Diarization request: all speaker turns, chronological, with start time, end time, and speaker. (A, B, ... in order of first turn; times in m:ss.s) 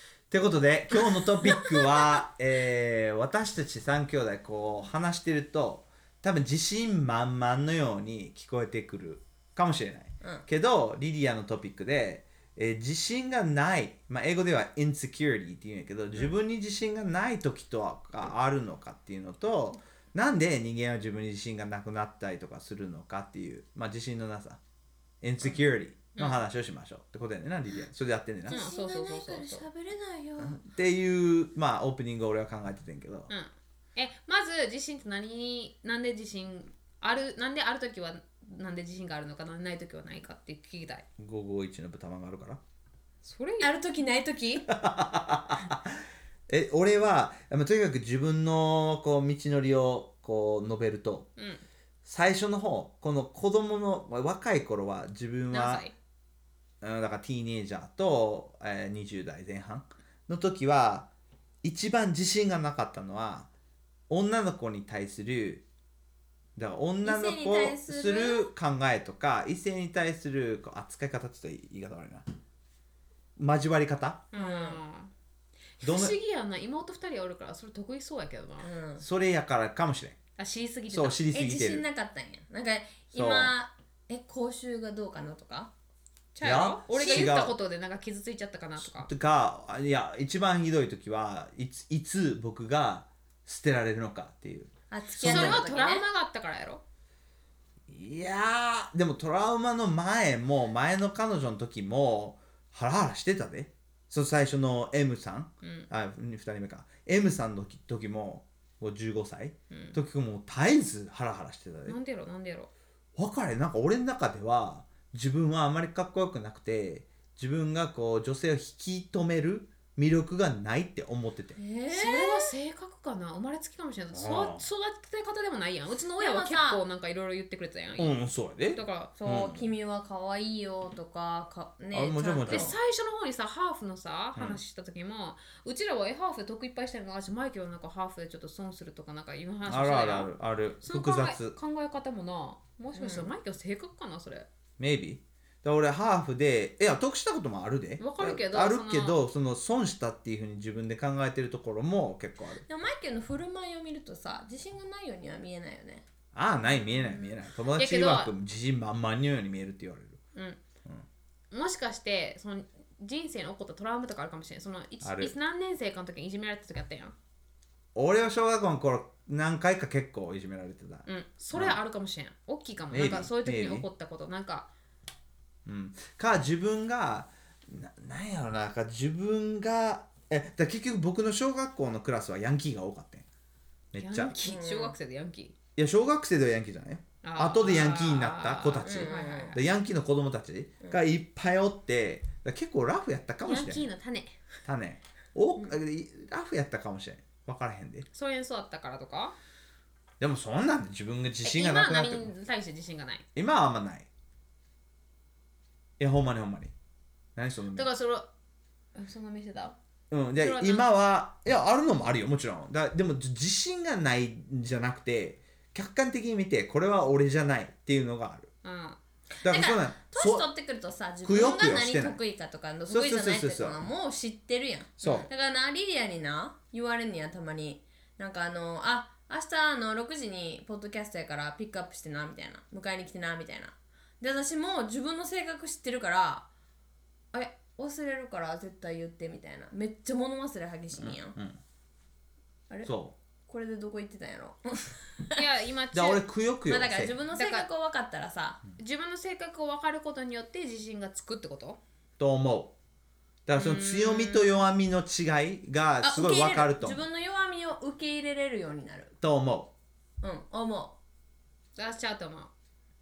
0:00.3-0:24.6 A
0:25.2-0:28.6 A
0:28.5-0:30.6 B
0:28.5-0:29.6 C
0:30.4-0:33.3 A
0:33.3-0:41.0 C
0:41.2-0:42.6 A
0:43.2-0:43.7 C
0:43.6-0:44.7 B
0:44.7-0:51.3 A
0:51.4-0:51.6 C
0:52.0-0:55.8 A
0:55.5-0:55.9 C
0:56.8-1:01.1 A
1:01.6-1:03.5 A
1:04.1-1:05.6 A
1:06.6-1:12.2 A
1:07.0-1:08.5 B
1:13.4-1:14.3 A
1:14.3-1:15.1 C
1:14.3-1:14.8 B
1:15.8-1:18.7 C
1:15.8-1:16.2 A
1:18.6-1:19.0 B
1:19.0-1:20.2 A
1:20.4-1:21.2 C
1:20.9-1:21.8 A
1:21.3-1:25.7 B
1:23.1-1:23.5 A
1:26.3-1:29.1 C
1:26.4-1:27.5 A
1:28.8-1:35.6 A
1:34.9-1:36.0 B
1:35.2-1:36.8 C
1:37.9-1:52.0 A
1:45.6-1:45.9 C
1:49.7-1:50.0 C
1:51.9-1:52.7 C
1:53.2-2:01.6 A
2:01.6-2:02.5 B
2:01.9-2:08.2 C
2:04.1-2:04.7 A
2:06.2-2:06.8 B
2:08.0-2:09.6 A
2:08.7-2:09.1 C
2:09.2-2:12.8 B
2:11.9-2:12.7 A
2:12.5-2:20.3 C
2:14.3-2:14.6 A
2:19.7-2:21.6 A
2:20.8-2:24.5 C
2:23.0-2:23.3 B
2:24.8-2:32.6 A
2:28.0-2:29.2 C
2:32.6-2:36.0 B
2:36.3-2:40.2 A
2:37.8-2:38.3 C
2:40.3-2:40.6 C
2:41.5-2:47.1 C
2:45.0-2:45.3 A
2:47.9-2:51.8 A
2:51.1-2:54.7 C
2:52.9-2:53.8 A
2:55.6-3:03.3 A
3:03.9-3:04.4 A
3:04.0-3:05.5 C
3:04.4-3:05.0 B
3:05.8-3:13.9 A
3:07.2-3:09.6 C
3:08.8-3:09.6 B
3:13.4-3:14.4 C
3:14.6-3:18.0 A
3:18.1-3:19.3 C
3:20.2-3:22.3 A
3:21.4-3:23.2 C
3:23.4-3:24.1 A
3:26.0-3:26.7 A
3:27.4-3:27.9 A
3:27.7-3:28.2 C
3:28.9-3:29.8 C
3:30.1-3:38.5 A
3:30.4-3:30.9 C
3:38.6-3:39.0 C
3:39.3-3:56.5 B
3:39.4-3:40.5 A
3:41.2-3:42.2 A
3:42.9-3:43.8 A
3:45.0-3:45.3 A
3:57.3-4:01.4 B
4:01.0-4:01.6 A
4:02.8-4:03.1 A
4:03.4-4:05.4 B
4:05.3-4:06.2 C
4:05.9-4:07.2 A
4:06.7-4:08.6 B
4:07.3-4:07.7 C
4:08.8-4:11.8 C
4:12.2-4:12.7 A
4:13.4-4:17.0 A
4:13.6-4:14.6 C
4:16.0-4:19.2 B
4:19.2-4:19.7 A
4:20.2-4:21.0 B
4:21.8-4:22.5 C